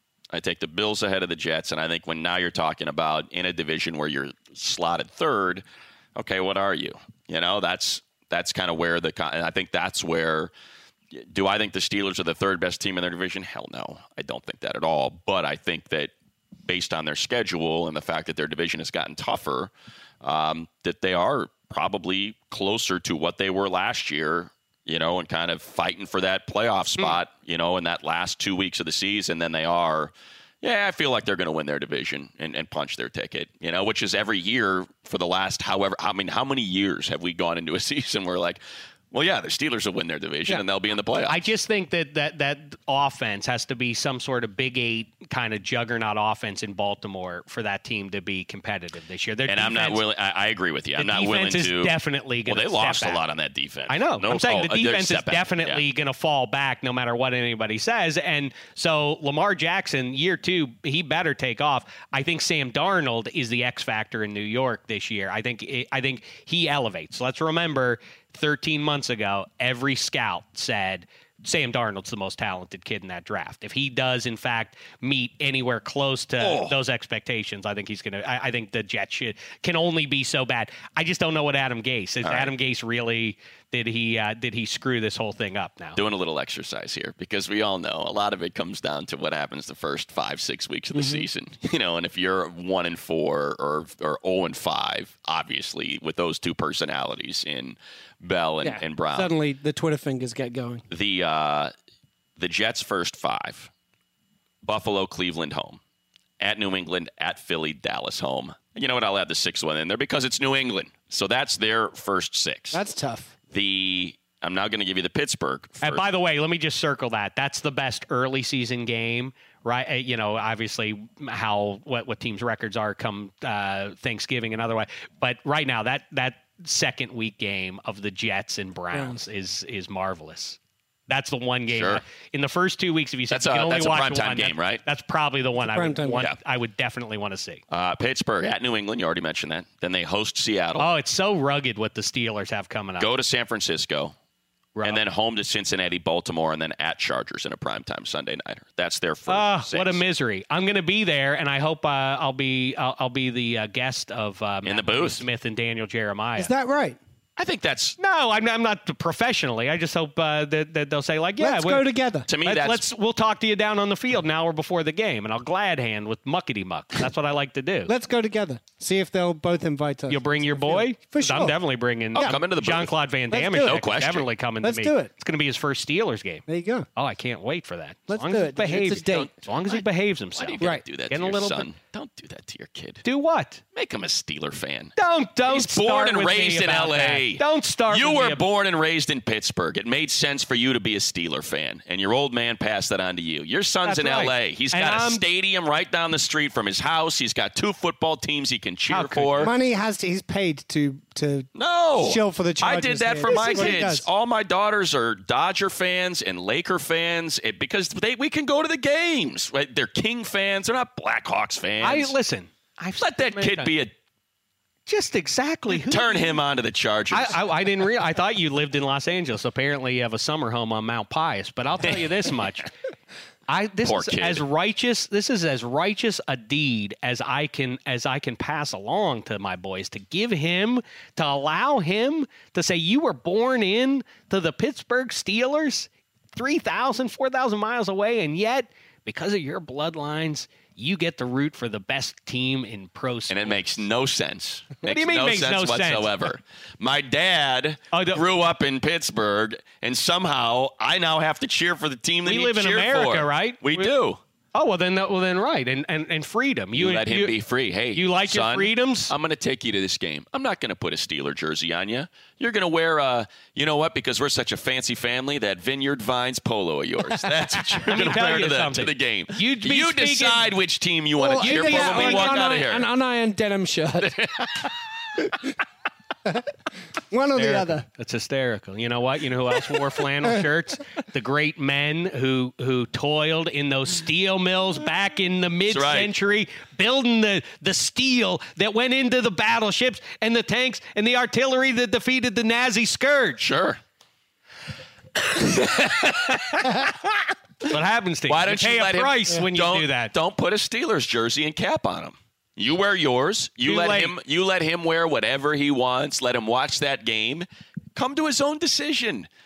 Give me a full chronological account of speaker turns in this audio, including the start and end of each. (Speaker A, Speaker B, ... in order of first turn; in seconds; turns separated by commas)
Speaker A: 0.3-5.6, Speaker A: 6.2-10.5, Speaker A: 11.1-16.1, Speaker A: 16.7-38.6, Speaker A: 39.1-41.5, Speaker B: 41.3-50.0, Speaker A: 49.5-55.8, Speaker B: 51.0-53.2, Speaker B: 53.9-86.0, Speaker A: 76.4-76.8, Speaker A: 82.2-82.5, Speaker A: 86.0-99.3, Speaker C: 90.9-91.2, Speaker C: 98.6-100.8, Speaker A: 100.9-101.7, Speaker A: 102.4-103.7, Speaker A: 104.6-105.8, Speaker A: 106.4-112.8, Speaker C: 112.7-113.3, Speaker A: 113.5-116.0, Speaker B: 115.8-130.6, Speaker B: 131.1-137.6, Speaker A: 131.7-132.0, Speaker A: 133.3-134.8, Speaker C: 135.6-136.3, Speaker A: 137.7-140.9, Speaker B: 140.8-143.1, Speaker A: 143.0-144.2, Speaker A: 144.8-150.0, Speaker B: 149.3-156.5, Speaker A: 154.7-155.2, Speaker C: 156.4-157.0, Speaker A: 157.4-158.0, Speaker B: 158.0-167.9, Speaker C: 161.4-162.3, Speaker A: 162.3-162.8, Speaker C: 167.9-171.6, Speaker B: 170.1-176.4, Speaker A: 172.2-172.9, Speaker C: 173.3-173.8, Speaker A: 173.6-174.3, Speaker C: 174.6-175.1, Speaker C: 176.5-176.9, Speaker B: 177.0-181.7, Speaker C: 178.1-179.3, Speaker A: 178.9-179.8, Speaker A: 180.3-183.1, Speaker B: 183.0-183.6, Speaker A: 183.7-184.9, Speaker B: 185.0-188.4, Speaker A: 185.5-199.5, Speaker B: 193.8-195.2, Speaker B: 198.9-199.5, Speaker C: 199.4-204.1, Speaker A: 201.6-212.1, Speaker B: 203.3-203.8, Speaker B: 211.8-213.7, Speaker A: 213.0-213.9, Speaker B: 214.9-216.4, Speaker A: 215.7-217.8, Speaker B: 217.1-222.7, Speaker B: 223.5-243.8, Speaker A: 223.8-224.4, Speaker A: 243.3-254.2, Speaker B: 244.8-246.3, Speaker B: 247.9-248.2, Speaker B: 252.2-253.9, Speaker B: 254.6-257.3, Speaker A: 256.8-272.9, Speaker B: 257.9-259.1, Speaker B: 267.9-270.5, Speaker C: 271.2-274.2, Speaker B: 271.4-272.5, Speaker A: 274.0-274.7, Speaker C: 275.2-275.5, Speaker C: 277.1-277.9, Speaker B: 277.4-293.4, Speaker A: 285.7-286.1, Speaker A: 293.4-293.8, Speaker B: 295.4-296.9, Speaker A: 295.8-296.0, Speaker B: 297.6-300.1, Speaker A: 298.3-309.3, Speaker B: 303.6-304.1